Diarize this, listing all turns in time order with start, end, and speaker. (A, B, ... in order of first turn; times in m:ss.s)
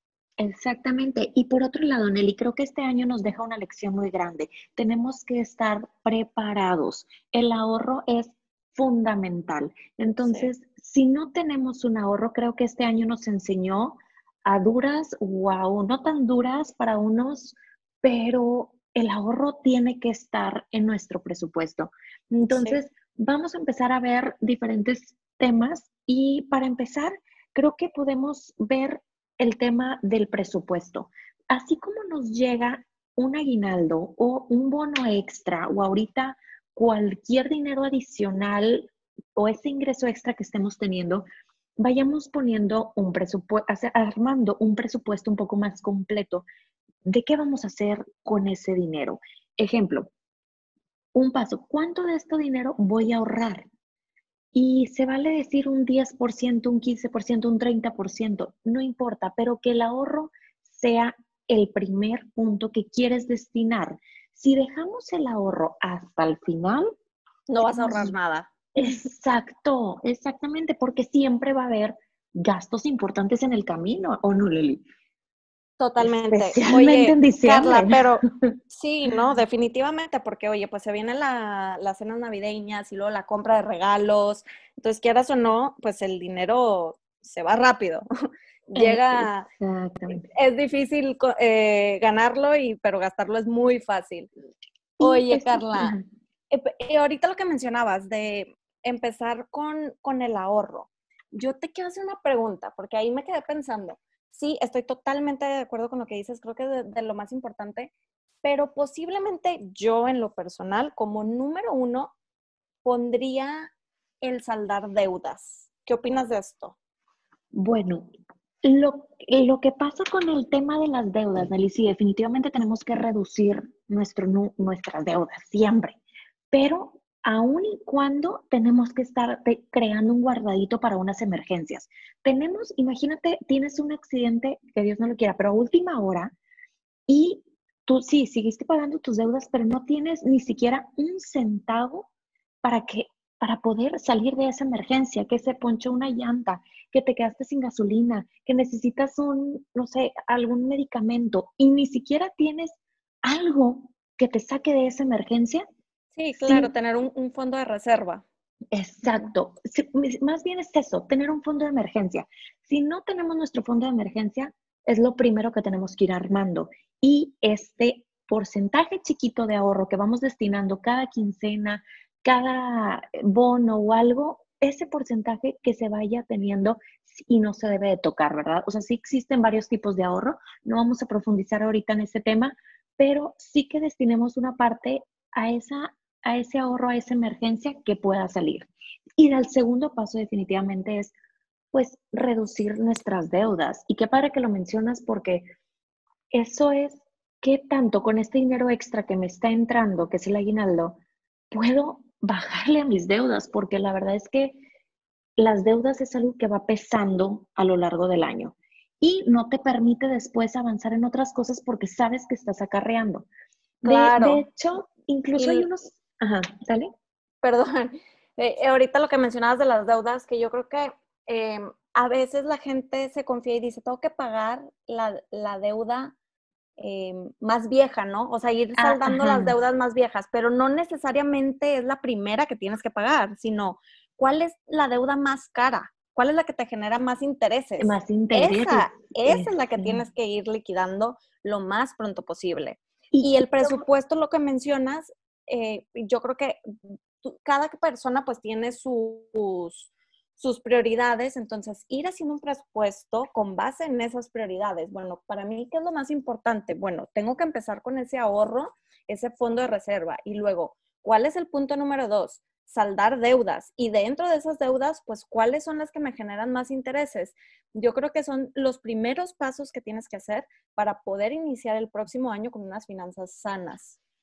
0:00.4-0:41.2 A
0:10.2-0:10.5 B
0:22.5-0:22.8 B
0:41.8-0:46.4 A
0:47.0-0:50.1 A
0:51.1-0:53.7 A
0:54.5-1:06.9 A
1:07.5-1:08.5 B
1:07.7-1:08.1 A
1:08.7-1:14.8 A
1:15.8-1:28.0 B
1:16.0-1:18.0 A
1:28.7-1:29.4 B
1:28.8-1:30.2 A
1:30.1-1:34.3 B
1:35.0-1:35.9 B
1:35.0-1:36.0 A
1:36.5-1:47.9 B
1:48.4-1:52.1 B
1:52.8-1:53.7 B
1:54.2-1:56.8 B
1:57.5-1:58.1 A
1:58.6-2:06.0 A
2:06.5-2:16.3 A
2:17.1-2:22.1 A
2:22.6-2:35.6 A
2:36.2-2:38.2 B
2:36.4-2:36.7 A
2:38.7-3:11.1 A
3:11.7-3:15.5 A
3:16.3-3:21.0 A
3:21.5-3:24.6 A
3:25.4-3:33.3 A
3:33.8-3:36.9 A
3:33.8-3:34.4 B
3:35.4-3:35.7 B
3:37.4-3:46.1 B
3:46.8-4:06.6 B
3:48.8-3:49.6 A
3:57.8-4:00.0 A
4:03.1-4:03.8 A
4:07.2-4:34.0 B